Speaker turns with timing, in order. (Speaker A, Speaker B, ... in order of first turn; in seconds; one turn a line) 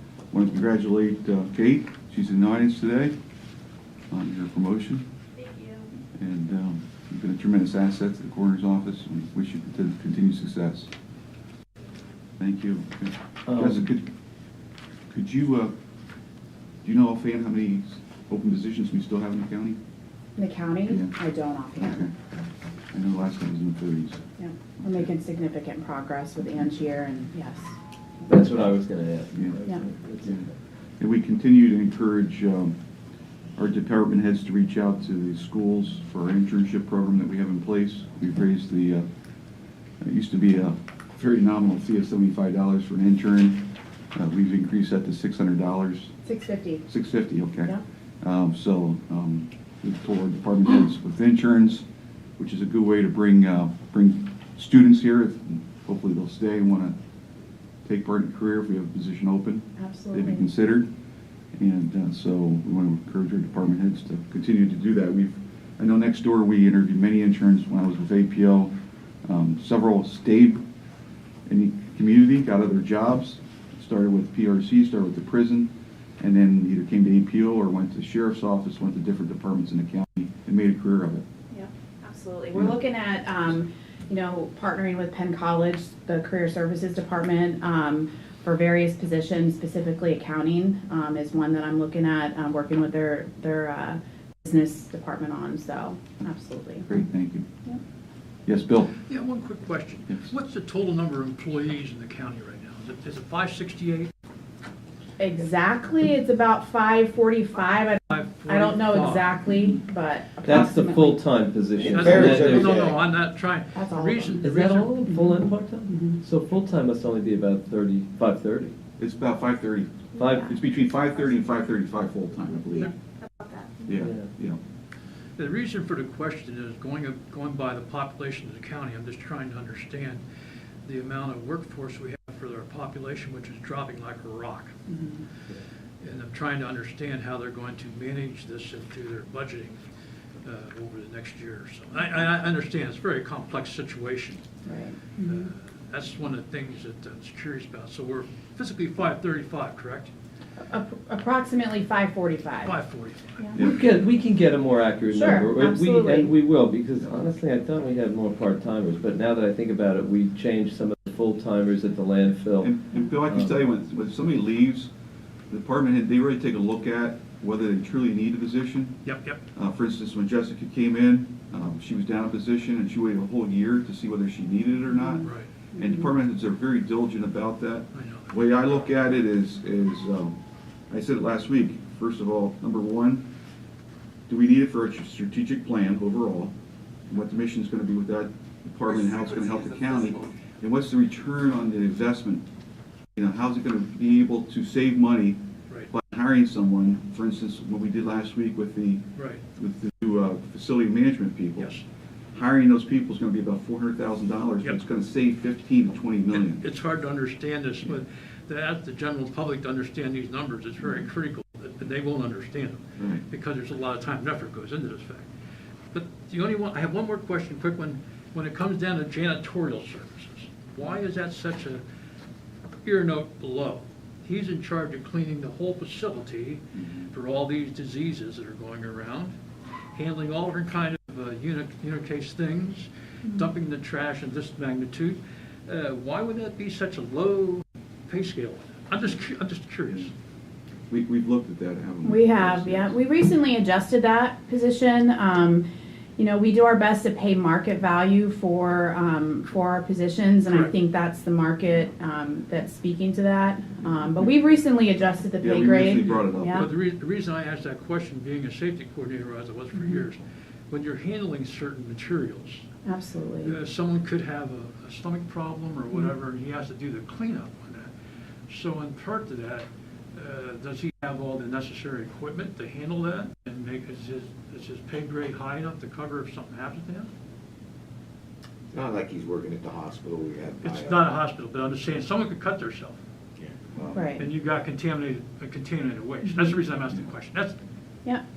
Speaker A: 0.3-3.1
Speaker A: 4.1-5.0
Speaker B: 5.4-5.8
Speaker A: 6.1-10.9
Speaker A: 12.4-14.1
Speaker C: 13.5-13.8
Speaker A: 15.1-15.7
Speaker A: 16.8-19.8
Speaker B: 20.4-22.1
Speaker A: 20.9-21.1
Speaker A: 21.8-22.1
Speaker A: 22.9-24.2
Speaker B: 24.4-27.7
Speaker C: 28.2-30.4
Speaker A: 29.3-29.6
Speaker A: 31.0-32.8
Speaker A: 33.6-39.1
Speaker A: 40.0-46.1
Speaker B: 46.2-46.9
Speaker A: 46.9-51.9
Speaker A: 52.4-56.9
Speaker A: 57.8-60.9
Speaker B: 59.8-60.4
Speaker A: 61.6-68.7
Speaker A: 69.2-70.6
Speaker A: 71.5-81.2
Speaker B: 81.5-96.8
Speaker A: 96.8-97.5
Speaker A: 98.5-98.9
Speaker D: 99.0-104.1
Speaker B: 105.2-111.2
Speaker D: 108.1-109.3
Speaker C: 110.4-112.8
Speaker E: 111.8-113.0
Speaker D: 111.8-115.0
Speaker B: 113.7-114.4
Speaker C: 114.4-118.7
Speaker B: 115.9-116.1
Speaker A: 119.0-122.9
Speaker B: 120.2-120.5
Speaker C: 120.2-120.5
Speaker B: 123.2-123.8
Speaker A: 123.8-124.6
Speaker C: 124.0-124.3
Speaker D: 125.4-130.2
Speaker D: 130.8-134.7
Speaker B: 134.9-135.2
Speaker D: 136.0-139.8
Speaker D: 140.4-144.4
Speaker B: 144.6-145.5
Speaker D: 145.2-150.1
Speaker B: 150.6-152.7
Speaker D: 152.6-153.5
Speaker A: 153.5-153.8
Speaker C: 153.6-162.7
Speaker B: 155.1-156.3
Speaker A: 162.6-164.9
Speaker C: 163.3-163.5
Speaker A: 165.5-169.0
Speaker D: 169.0-169.4
Speaker A: 169.5-180.4
Speaker D: 175.2-175.5
Speaker D: 177.9-178.6
Speaker A: 180.9-183.3
Speaker A: 184.3-186.5
Speaker A: 187.1-192.4
Speaker E: 189.1-190.3
Speaker A: 193.2-201.7
Speaker D: 199.1-199.4
Speaker D: 201.6-201.8
Speaker A: 202.3-206.6
Speaker D: 206.3-215.3
Speaker D: 215.9-221.8
Speaker D: 222.8-229.3
Speaker A: 226.8-227.1
Speaker D: 229.9-240.1
Speaker A: 240.9-243.0
Speaker B: 242.0-245.7
Speaker B: 246.2-256.7
Speaker A: 255.4-256.7
Speaker D: 256.5-262.6
Speaker B: 259.7-260.0
Speaker B: 262.8-263.6
Speaker D: 263.4-267.9
Speaker D: 268.5-277.1
Speaker E: 278.7-281.1
Speaker D: 280.6-283.0
Speaker E: 283.4-284.1
Speaker B: 283.9-284.2
Speaker D: 284.1-287.6